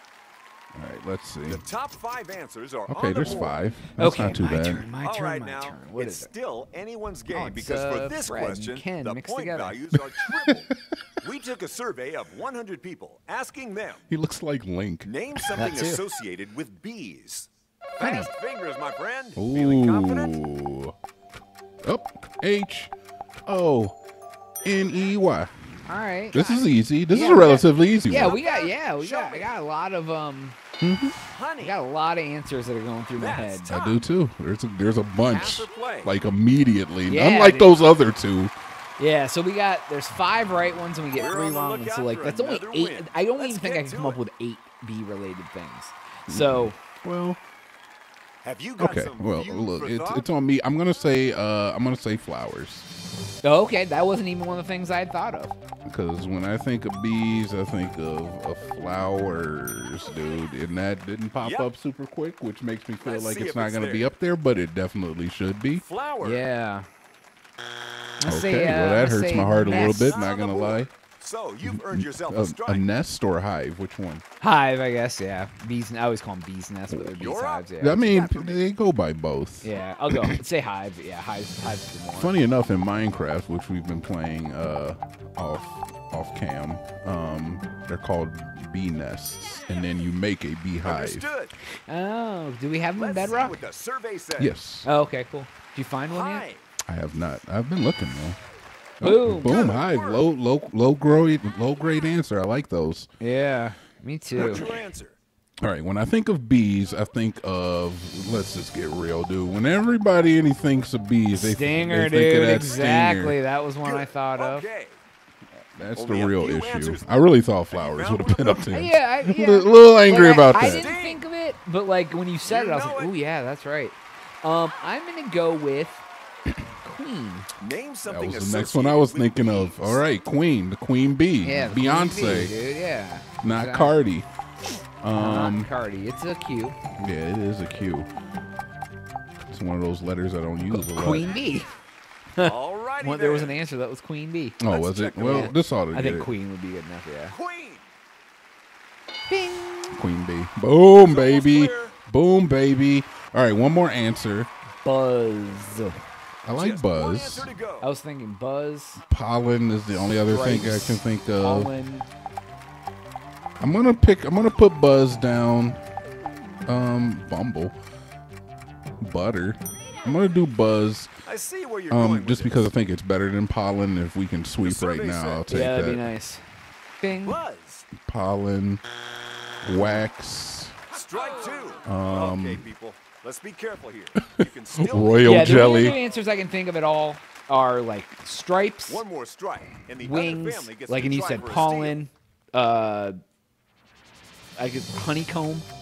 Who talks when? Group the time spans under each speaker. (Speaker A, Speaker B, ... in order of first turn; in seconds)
Speaker A: 0.7-1.6, 2.9-4.9, 9.9-10.7, 14.1-15.6, 19.4-20.9, 21.8-22.9, 23.4-23.9, 24.6-25.5, 26.3-28.4, 30.8-31.2, 33.7-38.5, 46.3-47.4, 48.8-52.9, 55.9-65.8, 68.2-70.9, 71.7-74.2, 77.8-80.4, 82.2-91.3, 94.4-94.9, 96.9-98.4, 99.0-103.1, 104.4-104.7, 105.6-113.4, 115.7-120.9, 128.1-132.5, 133.4-134.3, 135.0-135.7, 137.0-138.1, 139.5-141.3, 144.6-146.3, 149.9-154.5, 156.4-157.5, 159.1-161.7, 163.6-165.8, 166.7-167.7, 169.0-171.1, 171.9-176.1, 178.0-178.8, 179.6-180.7, 181.8-182.6, 184.3-185.9
Speaker B: 1.5-3.6, 5.0-14.1, 15.0-20.4, 28.1-29.5, 31.3-31.8, 33.2-34.0, 35.2-36.1, 41.1-44.2, 48.4-50.2, 61.4-61.7, 63.0-64.1, 65.8-66.5, 69.7-72.8, 77.2-78.6, 90.8-91.5, 93.0-94.5, 96.1-96.6, 99.4-100.3, 104.3-105.2, 113.8-115.0, 115.9-118.7, 120.5-121.2, 122.4-123.1, 127.6-130.1, 142.4-143.7, 144.7-145.5, 147.3-147.8, 151.0-151.9, 156.5-157.9, 171.2-172.7, 174.6-175.5, 177.2-177.9, 180.9-186.1, 188.9-192.0
Speaker C: 4.0-6.3, 7.3-9.8, 15.5-16.0, 18.0-18.3, 25.9-30.6, 31.6-33.7, 37.0-37.7, 39.0-46.8, 53.4-55.6, 66.2-66.9, 68.2-70.2, 74.4-78.1, 79.6-82.3, 91.9-93.6, 94.8-96.4, 99.0-99.6, 103.2-104.7, 111.3-114.7, 118.7-126.0, 126.8-127.5, 131.4-133.9, 135.1-136.8, 140.7-141.7, 142.3-144.6, 145.2-147.3, 149.3-150.0, 154.8-156.0, 157.8-159.0, 159.9-162.1, 175.5-176.4, 177.0-177.4, 185.2-189.0, 190.0-193.2, 194.6-195.7